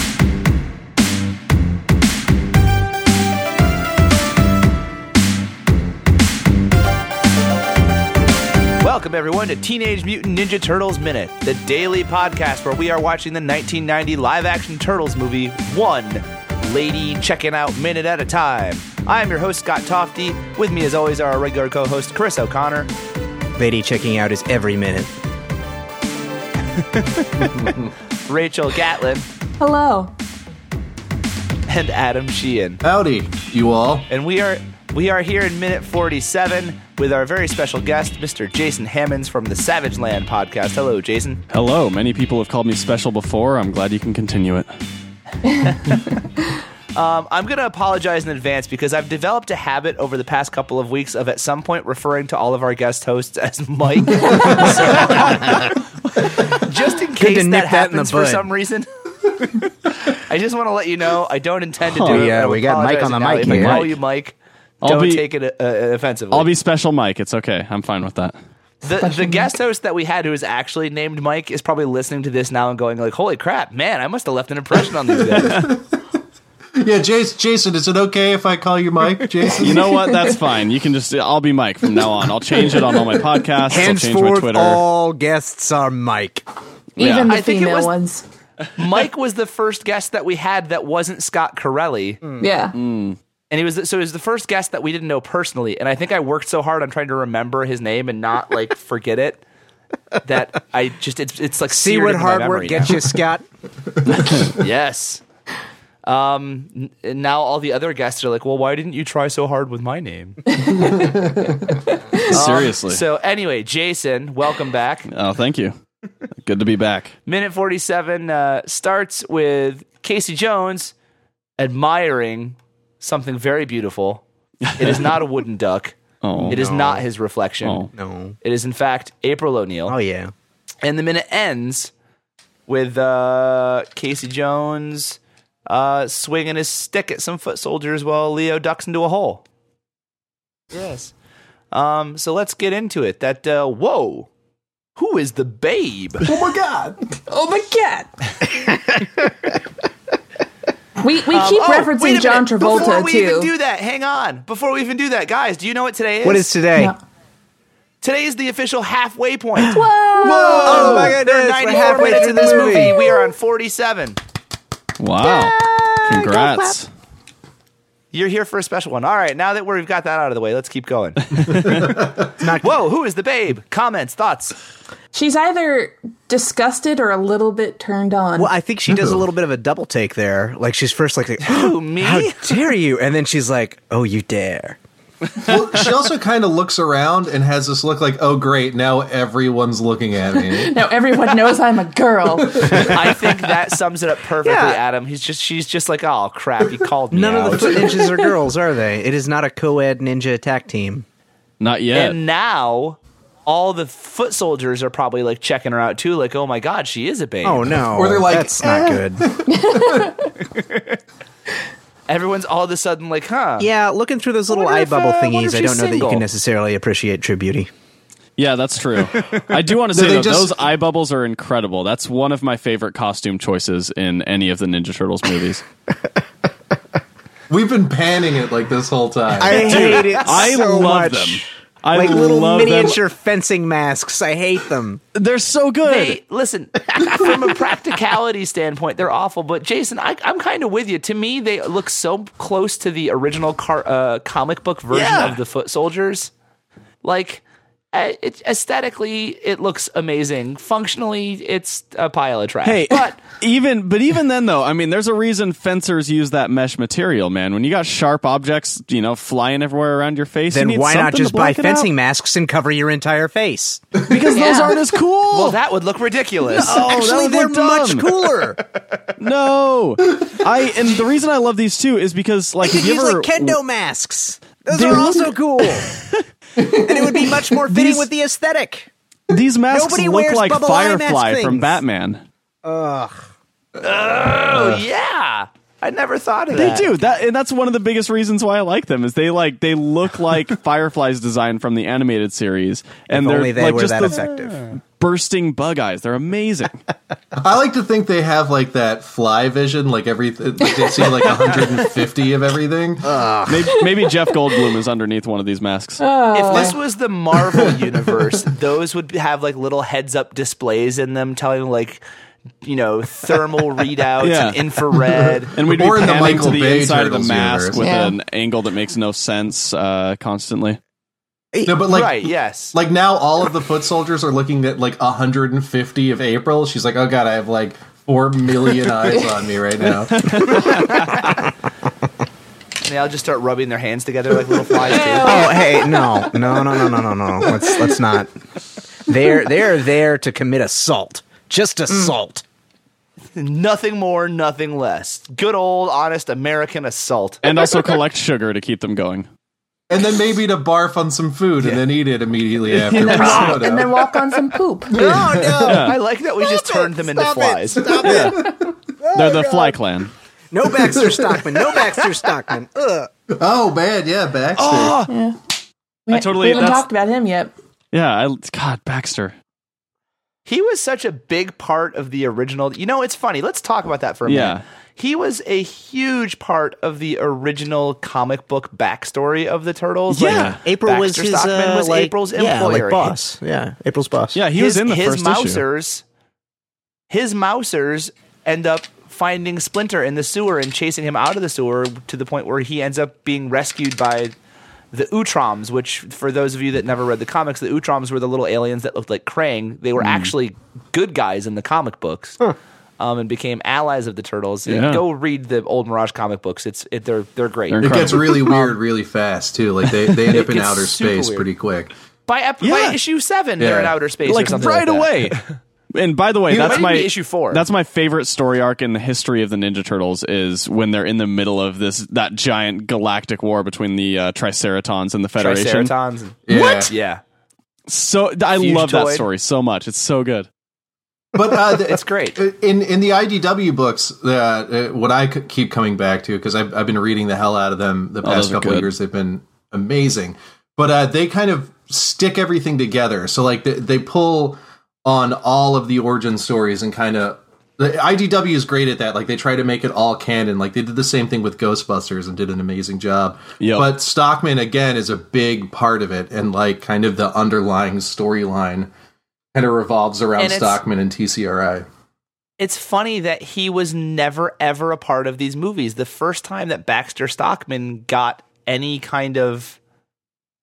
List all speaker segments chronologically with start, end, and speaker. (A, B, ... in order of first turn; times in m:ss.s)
0:08.8-0:22.9 A
0:23.6-0:25.1 B
0:26.9-0:27.7 A
0:27.4-0:27.9 C
0:28.2-0:29.3 A
0:29.6-0:30.1 D
0:31.7-0:32.8 A
0:32.8-0:34.1 C
0:34.1-0:41.4 A
0:41.5-0:44.7 E
0:46.9-0:55.7 A
0:56.2-0:58.9 A
0:57.2-0:58.5 B
0:59.4-1:06.5 A
1:01.9-1:02.3 E
1:02.0-1:03.9 B
1:03.4-1:04.0 E
1:04.8-1:05.2 E
1:06.3-1:08.3 E
1:08.8-1:15.7 A
1:09.1-1:09.4 D
1:15.2-1:16.0 C
1:16.8-1:19.9 C
1:19.5-1:24.8 E
1:23.6-1:26.4 B
1:27.0-1:28.2 D
1:27.0-1:27.3 E
1:27.2-1:27.9 A
1:28.8-1:32.2 A
1:32.4-1:32.8 D
1:32.7-1:33.2 E
1:33.5-1:39.4 A
1:40.2-1:43.0 A
1:41.7-1:43.4 B
1:44.4-1:45.2 A
1:46.0-1:50.4 A
1:50.5-1:52.3 D
1:50.7-1:51.6 C
1:52.2-1:53.0 E
1:52.3-1:55.1 A
1:55.1-1:55.7 E
1:56.4-1:57.1 E
1:57.2-2:00.9 A
2:01.6-2:04.2 A
2:04.6-2:05.2 E
2:04.8-2:06.0 A
2:06.2-2:06.6 E
2:06.4-2:07.0 B
2:06.5-2:07.9 A
2:07.6-2:07.9 E
2:07.9-2:08.4 B
2:08.4-2:09.9 A
2:09.9-2:10.3 B
2:10.8-2:11.9 A
2:12.7-2:19.4 A
2:20.7-2:21.1 A
2:21.7-2:24.3 A
2:25.0-2:26.2 A
2:26.2-2:27.2 C
2:27.3-2:28.7 D
2:28.9-2:29.2 B
2:31.0-2:33.5 D
2:31.3-2:36.5 A
2:36.2-2:36.9 B
2:38.0-2:44.2 A
2:39.6-2:41.0 D
2:40.2-2:41.2 C
2:40.2-2:43.1 B
2:42.0-2:43.2 D
2:45.0-2:46.9 E
2:45.2-2:46.8 B
2:48.1-2:51.8 A
2:51.6-2:52.3 C
2:52.3-2:52.8 B
2:52.6-2:54.6 A
2:55.1-2:58.5 D
2:58.4-3:04.8 B
2:58.9-2:59.2 C
3:01.4-3:02.4 A
3:05.4-3:10.8 C
3:10.4-3:12.9 D
3:12.6-3:12.9 C
3:12.7-3:18.0 A
3:14.4-3:14.8 B
3:17.1-3:21.0 B
3:17.5-3:18.1 C
3:21.6-3:22.2 E
3:21.9-3:27.8 A
3:27.4-3:29.3 B
3:27.9-3:30.3 C
3:29.6-3:30.3 D
3:30.6-3:31.0 A
3:32.1-3:33.7 A
3:33.6-3:37.7 B
3:34.5-3:36.2 A
3:38.4-3:45.6 E
3:39.9-3:40.6 C
3:47.5-3:49.7 C
3:49.3-3:55.0 B
3:49.4-3:53.0 E
3:49.6-3:50.4 A
3:55.1-3:56.2 E
3:55.8-4:06.3 A
4:04.9-4:05.4 E
4:07.0-4:13.2 A
4:12.6-4:21.9 E
4:20.5-4:24.0 B
4:24.0-4:25.6 E
4:24.3-4:24.7 D
4:24.4-4:24.8 A
4:25.3-4:26.7 A
4:26.5-4:28.6 B
4:26.5-4:28.2 E
4:29.2-4:33.6 E
4:32.6-4:35.9 B
4:34.7-4:36.0 E
4:36.6-4:37.3 C
4:36.6-4:38.9 B
4:37.7-4:38.1 E
4:39.3-4:42.2 E
4:39.7-4:41.8 B
4:42.6-4:43.2 B
4:43.8-4:46.9 A
4:46.5-4:54.3 E
4:53.1-4:54.6 B
4:54.4-4:54.7 A
4:55.0-4:56.8 E
4:57.4-5:03.1 C
5:03.0-5:03.8 B
5:03.4-5:06.0 E
5:06.0-5:06.8 D
5:06.3-5:12.0 A
5:12.6-5:15.5 A
5:14.2-5:14.6 E
5:15.3-5:17.8 C
5:15.5-5:20.8 E
5:17.8-5:18.2 D
5:21.5-5:21.9 B
5:21.6-5:30.7 C
5:21.9-5:22.8 A
5:30.2-5:31.3 E
5:30.9-5:31.3 B
5:32.8-5:35.8 A
5:34.9-5:36.1 D
5:35.2-5:38.3 B
5:39.0-5:42.4 B
5:43.3-5:47.4 A
5:47.4-5:49.3 E
5:49.9-5:54.2 C
5:52.9-5:55.0 D
5:53.0-5:53.4 E
5:54.9-5:55.7 C
5:54.9-5:59.8 B
5:55.6-5:56.0 E
5:55.7-5:58.2 A
5:57.8-5:58.5 C
5:58.0-5:58.4 E
5:59.1-6:00.1 E
6:00.5-6:03.1 B
6:00.8-6:01.4 C
6:03.3-6:05.0 C
6:04.6-6:05.1 A
6:05.1-6:05.4 D
6:06.1-6:07.5 D
6:06.1-6:06.9 E
6:07.9-6:09.3 E
6:10.4-6:23.2 A
6:14.2-6:14.6 E
6:20.1-6:20.6 E
6:20.2-6:24.4 B
6:24.3-6:25.6 E
6:24.5-6:26.0 A
6:27.1-6:34.3 A
6:34.9-6:47.9 A
6:40.0-6:40.3 E
6:44.6-6:45.0 E
6:47.7-6:48.8 E
6:47.8-6:51.9 C
6:50.3-6:51.5 A
6:52.3-6:55.4 A
6:52.6-6:53.0 E
6:53.6-6:54.0 C
6:54.2-6:55.4 E
6:55.9-7:05.9 E
6:56.5-6:56.8 C
6:56.5-6:57.6 A
7:05.4-7:07.2 A
7:06.5-7:06.9 C
7:07.9-7:10.5 E
7:08.6-7:09.2 A
7:11.3-7:38.9 C
7:11.6-7:12.4 A
7:18.2-7:18.9 E
7:33.6-7:33.9 E
7:39.5-7:41.8 C
7:40.4-7:40.8 A
7:42.6-7:49.8 A